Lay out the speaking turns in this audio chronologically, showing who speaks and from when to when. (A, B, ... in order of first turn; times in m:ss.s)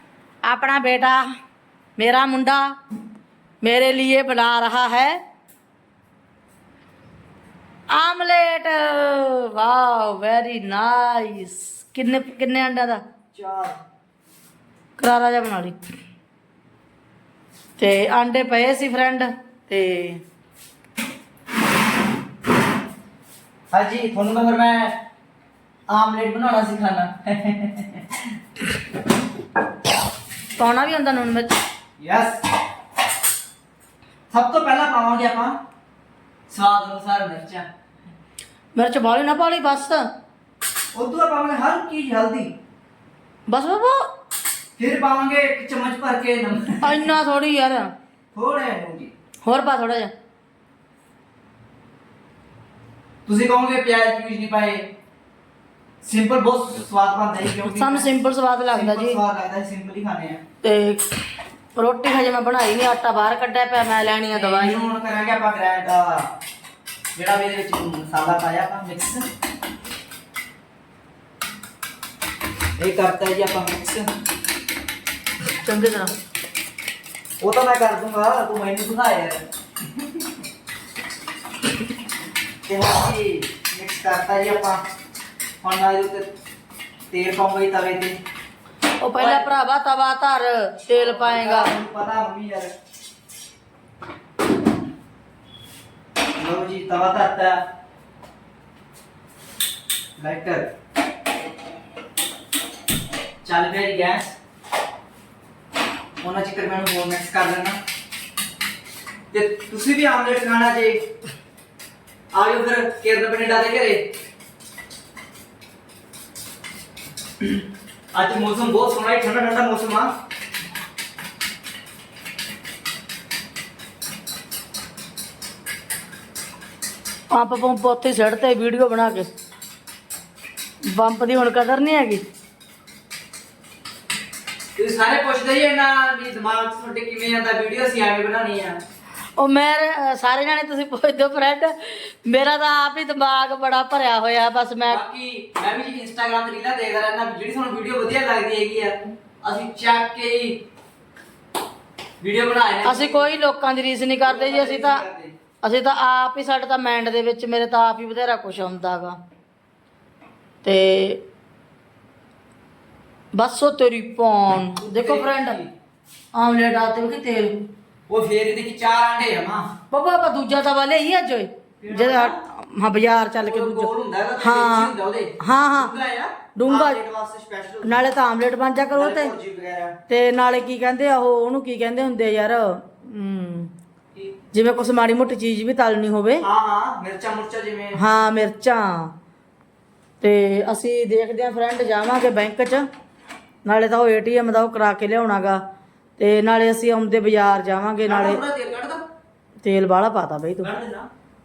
0:00.4-0:01.2 A
0:02.0-0:02.7 A
0:03.6-0:05.2 A
0:07.9-0:13.0 A
0:13.3-0:13.8 B
0:15.0-0:15.8 A
0:17.8-0:20.2 A
0:23.7-0:25.0 B
0:25.9-0:28.3 B
0:30.6-0:31.5 A
0:32.0-0:32.4 B
0:34.3-0:35.6 B
0:36.5-0:37.7 B
0:38.7-0:40.0 A
0:40.9-0:42.5 B
0:43.5-0:44.0 A
0:44.8-0:47.1 B
0:46.8-0:47.9 A
0:48.3-0:49.1 B
0:49.4-0:50.1 A
0:53.2-0:54.9 B
0:56.0-0:58.1 B
0:57.6-0:59.2 A
0:58.7-1:00.4 B
1:00.6-1:01.0 A
1:01.8-1:04.8 A
1:04.3-1:06.3 B
1:07.1-1:09.3 B
1:12.8-1:14.0 B
1:15.6-1:16.1 A
1:17.4-1:20.2 B
1:22.6-1:24.8 B
1:25.6-1:26.3 B
1:27.1-1:28.2 B
1:29.0-1:31.7 A
1:29.2-1:29.5 B
1:30.9-1:32.7 B
1:36.4-1:37.6 B
1:40.2-1:40.7 B
1:43.4-1:44.4 B
1:46.2-1:47.8 B
1:49.3-1:51.0 B
1:52.3-1:54.0 B
1:58.1-2:00.1 B
2:07.3-2:09.3 A
2:10.8-2:12.2 A
2:14.8-2:18.8 B
2:19.4-2:25.0 A
2:24.8-2:30.6 B
2:32.2-2:33.3 B
2:32.8-2:35.0 A
2:34.2-2:35.3 B
2:35.6-2:39.2 A
2:40.6-2:41.2 A
2:43.3-2:45.6 A
2:44.8-2:45.7 B
2:46.3-2:47.6 A
2:48.1-2:49.8 B
2:49.9-2:55.9 A
2:51.8-2:52.4 B
2:53.4-2:58.1 B
2:56.5-2:57.0 A
2:57.8-2:59.3 A
2:58.9-3:00.0 B
3:00.1-3:03.7 A
3:04.5-3:06.4 A
3:06.4-3:08.0 B
3:08.0-3:09.1 A
3:10.2-3:12.9 A
3:13.6-3:15.6 A
3:16.2-3:18.4 A
3:18.0-3:19.0 B
3:19.6-3:20.7 A
3:20.6-3:21.1 B